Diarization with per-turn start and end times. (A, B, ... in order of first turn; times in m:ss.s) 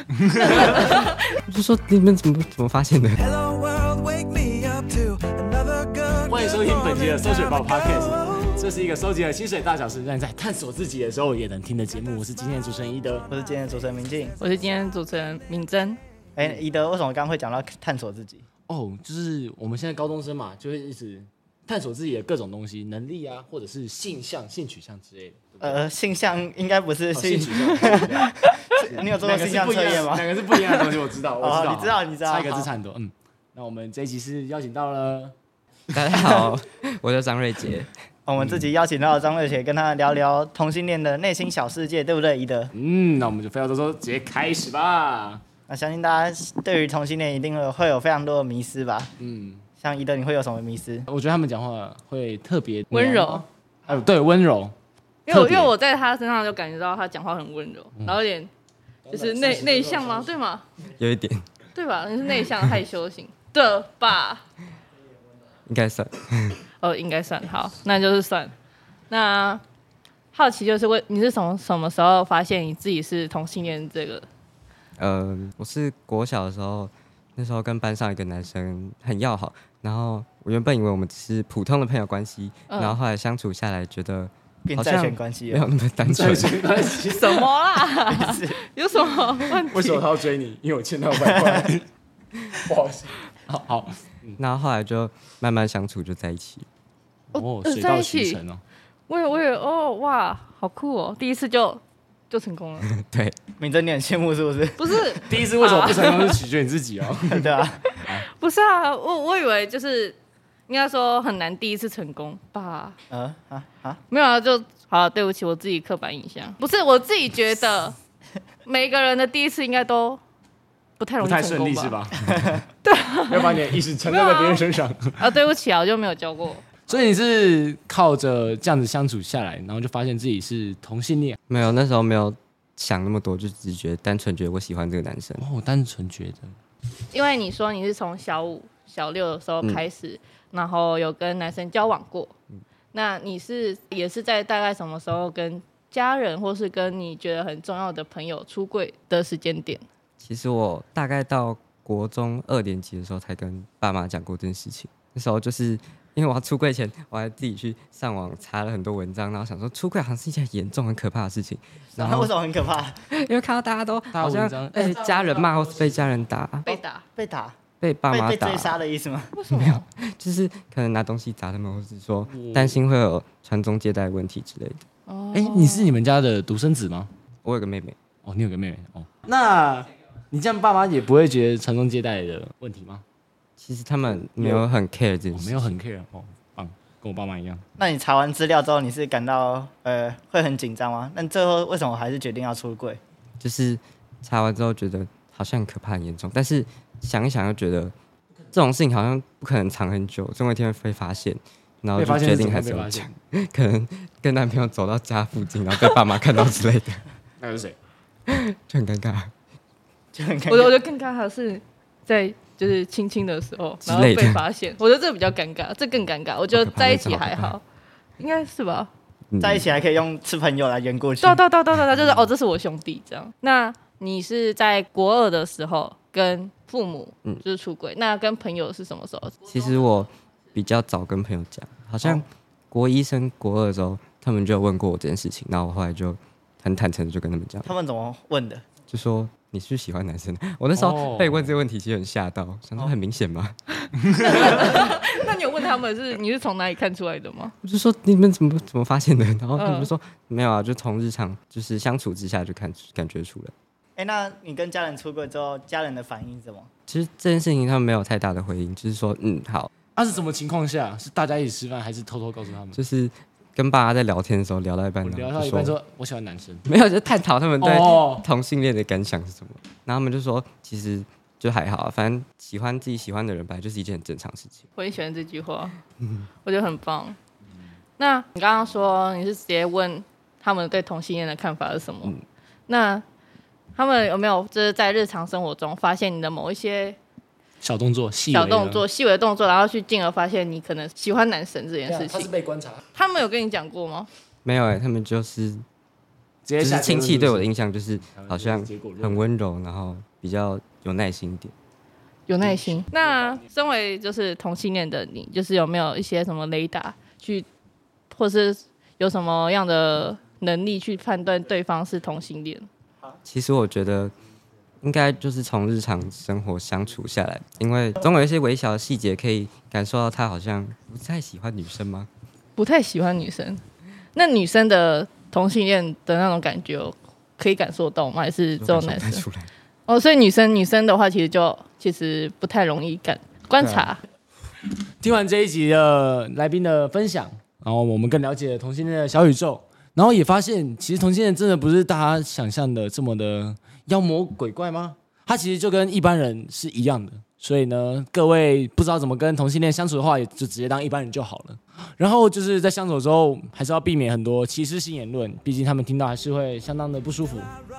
0:00.2-0:00.9 A
0:00.4-0:03.4 B
0:03.5-0:06.1 C
0:06.1-0:13.3 A
0:13.3-0:14.4 D
0:14.4-0:16.0 E
0:16.4-0:18.4 D
0:18.7-0:25.8 A
0:25.6-0:32.7 D
0:27.1-0:35.3 A
0:35.9-0:37.9 B
0:38.2-0:42.7 D
0:42.7-0:45.4 A
0:45.7-0:49.1 D
0:49.2-0:49.6 A
0:49.8-0:51.1 D
0:51.1-0:54.7 A
0:52.9-0:53.4 E
0:55.3-0:58.5 E
0:55.3-0:55.7 A
0:59.1-1:00.3 A
0:59.1-1:00.6 E
1:00.9-1:01.4 B
1:01.7-1:04.4 E
1:05.7-1:06.6 B
1:06.8-1:08.5 E
1:09.1-1:09.6 E
1:10.3-1:14.2 E
1:15.0-1:26.6 B
1:22.7-1:23.0 E
1:24.6-1:25.7 D
1:26.0-1:27.5 A
1:27.1-1:30.0 E
1:28.1-1:28.6 D
1:29.5-1:31.8 A
1:32.4-1:34.4 A
1:34.4-1:36.6 B
1:37.3-1:38.6 A
1:37.3-1:38.4 E
1:39.1-1:42.9 E
1:42.9-1:43.4 B
1:43.6-1:45.0 D
1:44.8-1:46.4 E
1:45.2-1:48.2 A
1:47.2-1:48.0 D
1:48.3-1:50.2 E
1:50.7-1:53.0 E
1:53.1-1:54.0 D
1:54.1-1:58.0 E
1:58.6-2:00.2 E
2:01.0-2:02.0 E
2:01.2-2:02.6 A
2:02.8-2:04.6 E
2:03.3-2:05.3 A
2:05.2-2:06.6 E
2:06.9-2:11.4 A
2:11.5-2:15.4 B
2:15.4-2:16.5 A
2:17.1-2:22.3 E
2:22.9-2:29.8 E
2:30.2-2:42.3 B
2:42.0-2:43.0 D
2:43.1-2:46.7 B
2:44.1-2:45.9 A
2:46.6-2:47.0 E
2:47.2-2:47.6 D
2:47.8-2:48.8 B
2:48.1-2:49.3 D
2:49.3-2:49.8 E
2:49.5-2:54.8 B
2:52.3-2:52.8 A
2:55.1-2:56.0 E
2:55.3-2:57.1 A
2:57.4-2:58.0 B
2:58.2-3:03.0 A
3:03.6-3:05.7 B
3:04.4-3:04.6 A
3:05.3-3:07.6 A
3:07.8-3:13.0 D
3:13.4-3:17.9 B
3:18.5-3:27.0 B
3:21.9-3:23.1 A
3:27.4-3:27.8 A
3:28.3-3:29.3 B
3:30.1-3:30.8 D
3:30.4-3:37.6 E
3:33.8-3:34.4 B
3:36.5-3:37.6 B
3:38.2-3:38.9 E
3:39.3-3:39.7 B
3:39.4-3:41.4 D
3:41.2-3:49.8 E
3:49.4-3:57.7 B
3:57.6-3:58.6 D
3:58.9-4:03.5 B
4:00.8-4:01.6 A
4:04.0-4:07.5 E
4:07.6-4:13.5 B
4:09.6-4:09.9 E
4:14.0-4:16.7 D
4:16.9-4:19.7 B
4:20.0-4:22.8 A
4:22.7-4:25.8 B
4:25.0-4:26.6 A
4:26.6-4:34.6 B
4:27.6-4:28.2 A
4:34.8-4:35.8 E
4:36.4-4:37.2 E
4:38.0-4:42.2 E
4:42.7-4:43.0 E
4:43.7-4:47.0 E
4:47.6-4:48.8 A
4:48.3-4:52.3 E
4:51.9-4:52.8 A
4:52.9-4:54.1 E
4:54.4-4:55.6 B
4:56.4-4:57.5 A
4:56.6-5:01.5 B
4:58.0-4:59.2 A
5:02.3-5:07.4 E
5:02.4-5:03.4 A
5:08.1-5:12.7 E
5:13.2-5:14.1 B
5:14.8-5:22.1 B
5:22.6-5:23.6 E
5:24.1-5:29.2 E
5:28.6-5:29.5 B
5:29.9-5:34.0 E
5:35.0-5:57.5 A